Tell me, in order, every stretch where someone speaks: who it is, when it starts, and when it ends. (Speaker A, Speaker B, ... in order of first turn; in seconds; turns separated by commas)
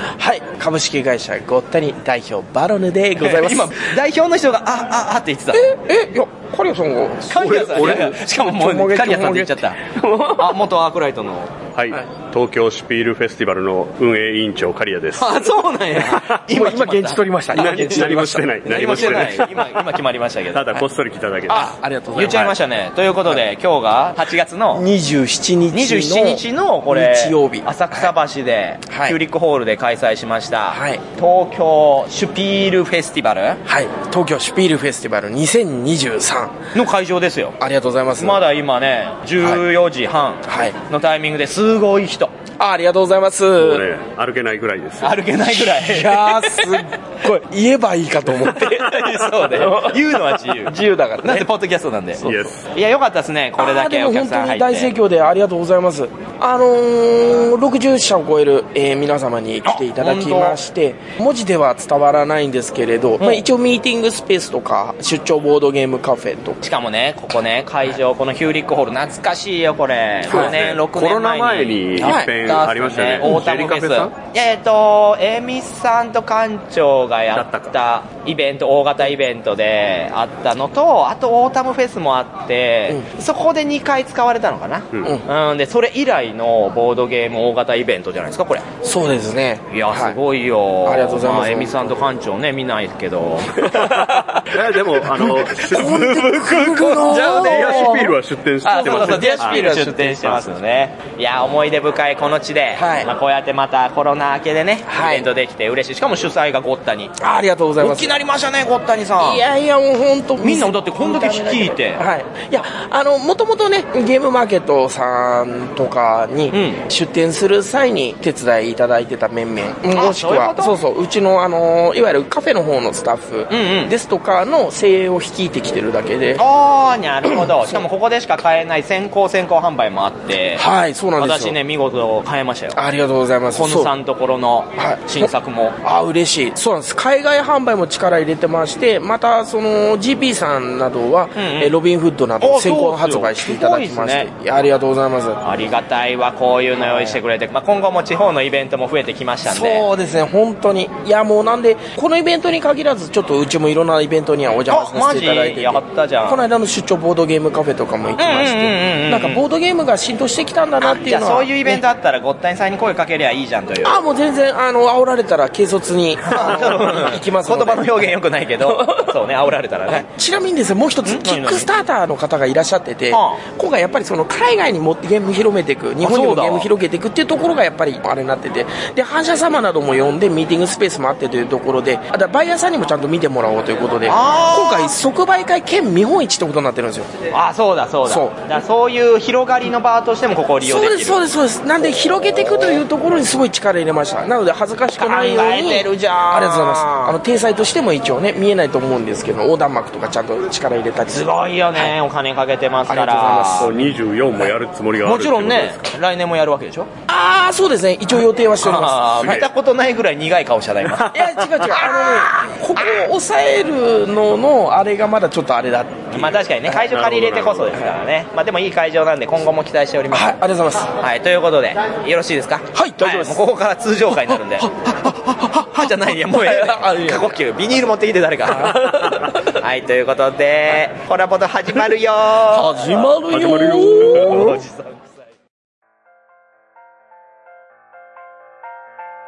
Speaker A: 0.2-3.7, Speaker B: 3.2-5.7, Speaker A: 5.5-10.5, Speaker B: 7.2-11.6, Speaker C: 11.7-15.3, Speaker B: 15.2-18.0, Speaker A: 16.5-19.1, Speaker C: 17.5-19.6, Speaker B: 18.6-20.8, Speaker C: 20.5-21.7, Speaker A: 21.5-22.5, Speaker B: 21.5-24.8, Speaker A: 24.7-28.1, Speaker B: 25.7-33.6, Speaker A: 28.9-29.2, Speaker A: 30.7-31.0, Speaker A: 33.6-36.6, Speaker B: 36.7-37.5, Speaker A: 37.6-38.4, Speaker B: 38.2-42.3, Speaker A: 40.5-40.8, Speaker A: 42.6-43.8, Speaker C: 43.6-45.2, Speaker B: 45.0-46.8, Speaker A: 45.6-48.8, Speaker B: 48.5-52.2, Speaker A: 49.5-50.0, Speaker A: 50.6-51.5, Speaker A: 52.1-52.5, Speaker C: 52.2-52.6, Speaker B: 52.7-54.9, Speaker A: 53.6-66.6, Speaker B: 59.6-60.6, Speaker B: 63.2-63.5, Speaker B: 66.6-88.7, Speaker A: 70.3-70.5, Speaker C: 70.3-74.1, Speaker A: 72.0-72.3, Speaker C: 77.3-77.7, Speaker A: 88.8-90.2, Speaker B: 89.7-93.9, Speaker A: 90.8-92.0, Speaker A: 93.9-94.4, Speaker C: 94.0-96.4, Speaker A: 95.2-98.1, Speaker B: 96.2-98.0, Speaker C: 97.1-99.7, Speaker B: 98.6-107.1, Speaker A: 98.7-100.4, Speaker A: 102.7-103.1, Speaker A: 104.9-105.3, Speaker A: 107.2-108.1, Speaker B: 107.8-109.4, Speaker A: 109.2-126.4, Speaker B: 110.4-112.0, Speaker B: 116.5-116.8, Speaker B: 119.9-120.8, Speaker B: 123.5-123.9, Speaker B: 126.4-130.6, Speaker A: 127.2-127.8, Speaker A: 130.6-131.6, Speaker B: 131.2-132.8, Speaker A: 132.7-133.9, Speaker B: 133.5-135.8, Speaker A: 134.8-135.3, Speaker A: 135.8-145.4, Speaker B: 141.3-141.7, Speaker B: 142.4-144.3, Speaker B: 145.4-149.8, Speaker A: 146.8-147.2, Speaker A: 149.4-161.8, Speaker B: 154.7-156.4, Speaker B: 158.2-159.4, Speaker B: 160.8-164.0, Speaker A: 163.8-168.0, Speaker B: 166.2-170.1, Speaker A: 168.6-169.1, Speaker A: 169.9-187.1, Speaker B: 171.0-171.7, Speaker B: 173.1-173.4, Speaker B: 176.0-176.7, Speaker B: 184.1-184.9, Speaker B: 187.3-191.2, Speaker A: 188.1-188.3, Speaker A: 190.6-201.9, Speaker B: 192.4-192.8, Speaker B: 194.9-196.9, Speaker B: 201.1-203.7, Speaker A: 202.9-203.8, Speaker C: 203.6-205.9, Speaker B: 205.0-206.9, Speaker A: 207.1-209.5, Speaker B: 208.6-211.2, Speaker A: 211.1-216.8, Speaker B: 211.8-212.3, Speaker B: 216.1-220.4, Speaker A: 220.1-220.9, Speaker B: 221.0-229.0, Speaker A: 222.7-223.4, Speaker A: 224.1-227.3, Speaker A: 228.5-229.2, Speaker B: 229.5-233.1, Speaker A: 232.5-234.6, Speaker C: 233.3-234.4, Speaker B: 234.0-235.1